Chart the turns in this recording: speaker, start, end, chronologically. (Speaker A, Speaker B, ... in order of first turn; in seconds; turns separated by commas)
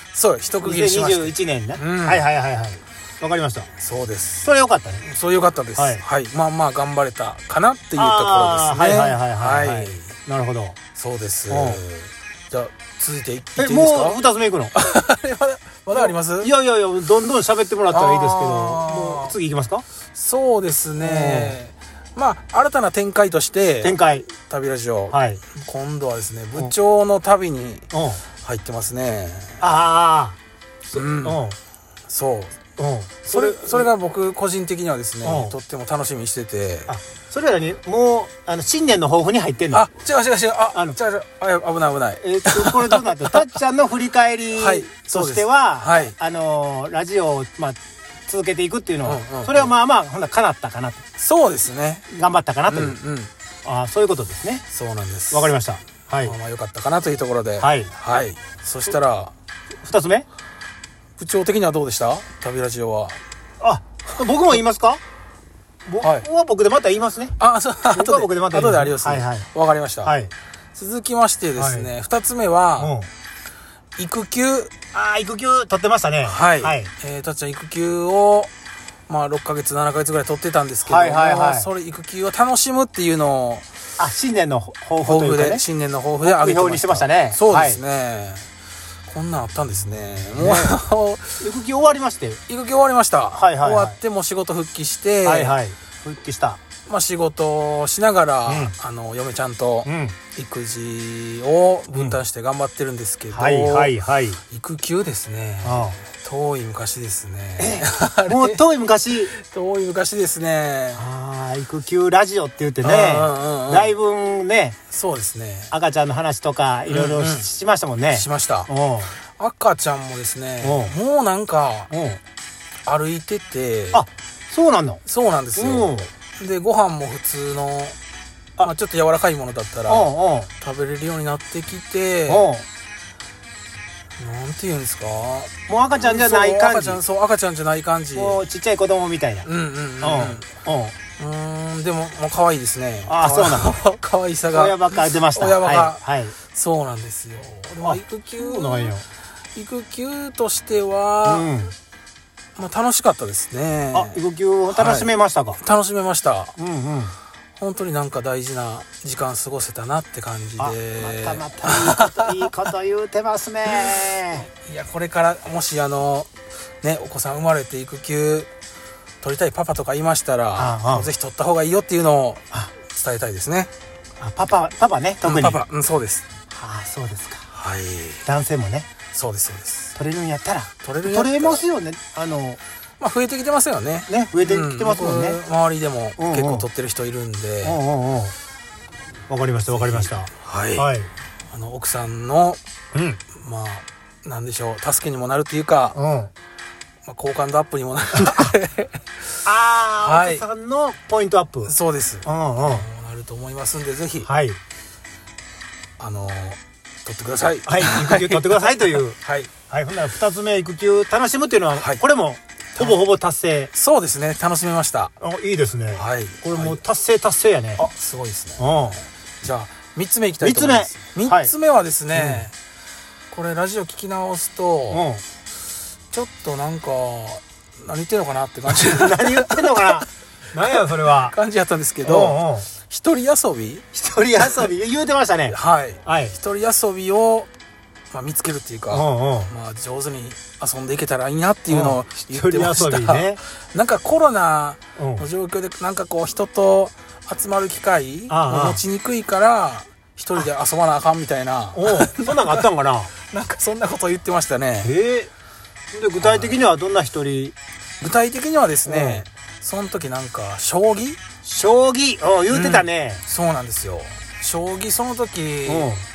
Speaker A: 0.1-2.2, Speaker B: 0.6-3.7, Speaker A: 3.8-4.5, Speaker B: 4.4-5.0, Speaker A: 5.0-10.1, Speaker B: 5.8-6.0, Speaker B: 8.0-10.8, Speaker A: 10.9-14.2, Speaker B: 11.5-11.8, Speaker B: 13.6-14.7, Speaker A: 14.7-16.5, Speaker B: 15.9-19.8, Speaker A: 17.9-19.3, Speaker A: 20.1-27.9, Speaker B: 21.0-21.6, Speaker B: 23.8-24.3, Speaker B: 25.1-25.4, Speaker B: 27.9-28.2, Speaker A: 28.4-29.6, Speaker B: 29.6-31.6, Speaker A: 30.9-31.4, Speaker A: 32.1-32.6, Speaker B: 32.8-33.9, Speaker A: 33.3-36.9, Speaker B: 35.2-35.5, Speaker B: 36.9-39.9, Speaker A: 39.7-43.4, Speaker B: 42.2-51.0, Speaker A: 44.5-46.1, Speaker A: 49.0-49.7, Speaker A: 51.2-52.0, Speaker B: 52.1-53.0, Speaker A: 52.7-53.3, Speaker B: 53.6-54.6, Speaker A: 54.7-55.5, Speaker B: 55.3-56.4, Speaker A: 56.2-59.3, Speaker B: 57.6-57.9, Speaker B: 59.8-60.2, Speaker A: 61.2-63.2, Speaker B: 63.6-65.0, Speaker B: 65.8-67.3, Speaker A: 67.4-70.1, Speaker B: 67.9-69.5, Speaker B: 70.0-70.3, Speaker A: 70.7-72.9, Speaker B: 71.5-71.9, Speaker B: 72.8-73.1, Speaker A: 74.0-74.7, Speaker B: 74.9-76.9, Speaker A: 76.2-78.5, Speaker A: 79.1-83.7, Speaker B: 80.8-81.7, Speaker B: 84.0-85.6, Speaker A: 85.0-88.5, Speaker B: 86.2-87.8, Speaker A: 89.1-91.4, Speaker B: 90.4-90.8, Speaker B: 91.4-92.4, Speaker A: 92.5-95.5, Speaker B: 93.3-94.0, Speaker B: 95.2-96.6, Speaker A: 96.8-103.9, Speaker B: 98.5-98.7, Speaker B: 99.8-100.2, Speaker B: 101.9-102.2, Speaker B: 103.3-104.4, Speaker A: 104.5-108.6, Speaker B: 105.6-106.0, Speaker B: 107.6-109.3, Speaker A: 109.3-111.0, Speaker B: 110.9-114.8, Speaker A: 112.8-113.9, Speaker A: 114.9-115.7, Speaker B: 115.7-119.1, Speaker A: 116.9-117.5, Speaker A: 118.1-118.7, Speaker A: 119.3-121.9, Speaker B: 120.6-120.9, Speaker B: 121.9-122.2, Speaker A: 122.8-124.0, Speaker B: 123.9-125.0, Speaker A: 125.0-128.0, Speaker B: 125.5-126.1, Speaker A: 128.6-130.1, Speaker B: 129.9-130.5, Speaker A: 130.6-132.5, Speaker B: 132.3-132.7, Speaker A: 134.2-138.4, Speaker B: 135.7-137.0, Speaker B: 138.1-139.5, Speaker A: 139.4-140.4, Speaker B: 140.0-140.9, Speaker A: 141.2-149.0, Speaker B: 143.1-143.8, Speaker B: 144.5-146.3, Speaker B: 147.8-149.0, Speaker A: 149.5-151.5, Speaker B: 151.2-151.7, Speaker A: 152.6-154.2, Speaker B: 153.9-155.6, Speaker A: 154.7-156.5, Speaker B: 156.6-157.1, Speaker A: 157.6-162.5, Speaker B: 160.6-164.5, Speaker A: 163.7-163.9, Speaker A: 164.6-166.3, Speaker A: 166.8-168.5, Speaker A: 169.2-173.7, Speaker B: 170.6-171.1, Speaker B: 174.2-175.6, Speaker A: 175.2-176.2, Speaker B: 176.5-177.5, Speaker A: 177.5-178.2, Speaker B: 178.2-178.9, Speaker A: 179.1-179.9, Speaker B: 179.9-182.6, Speaker A: 180.8-181.6, Speaker A: 183.0-187.8, Speaker B: 184.1-185.4, Speaker B: 186.2-186.7, Speaker B: 187.6-188.3, Speaker B: 189.3-191.1, Speaker A: 189.7-190.8, Speaker A: 191.5-192.6, Speaker B: 192.9-193.2, Speaker A: 193.3-196.0, Speaker B: 195.9-196.3, Speaker A: 197.0-199.0, Speaker B: 198.2-198.5, Speaker B: 199.4-202.9, Speaker A: 200.0-200.4, Speaker A: 201.6-204.3, Speaker B: 204.2-204.6, Speaker A: 206.0-209.5, Speaker B: 207.7-209.2, Speaker B: 209.7-213.7, Speaker A: 211.7-212.0, Speaker A: 212.8-213.0, Speaker A: 213.7-215.1, Speaker B: 215.2-217.9, Speaker A: 215.9-216.8, Speaker A: 217.8-218.8, Speaker B: 218.6-219.0, Speaker A: 219.4-222.5, Speaker B: 220.4-221.5, Speaker B: 222.1-222.4, Speaker A: 223.3-225.0, Speaker B: 224.9-225.2, Speaker A: 226.1-230.1, Speaker B: 228.7-231.3, Speaker A: 230.7-233.8, Speaker B: 232.0-232.7, Speaker B: 233.9-236.3, Speaker A: 235.5-237.5, Speaker A: 238.1-252.6, Speaker B: 238.9-239.5, Speaker B: 241.7-243.4, Speaker B: 245.0-245.2, Speaker B: 248.3-248.8, Speaker B: 251.7-253.1, Speaker A: 253.3-254.9, Speaker B: 254.8-255.3, Speaker B: 255.9-257.6, Speaker A: 256.2-256.6, Speaker A: 258.0-261.2, Speaker B: 258.9-259.2, Speaker B: 261.4-263.2, Speaker A: 262.5-265.9, Speaker B: 265.7-266.0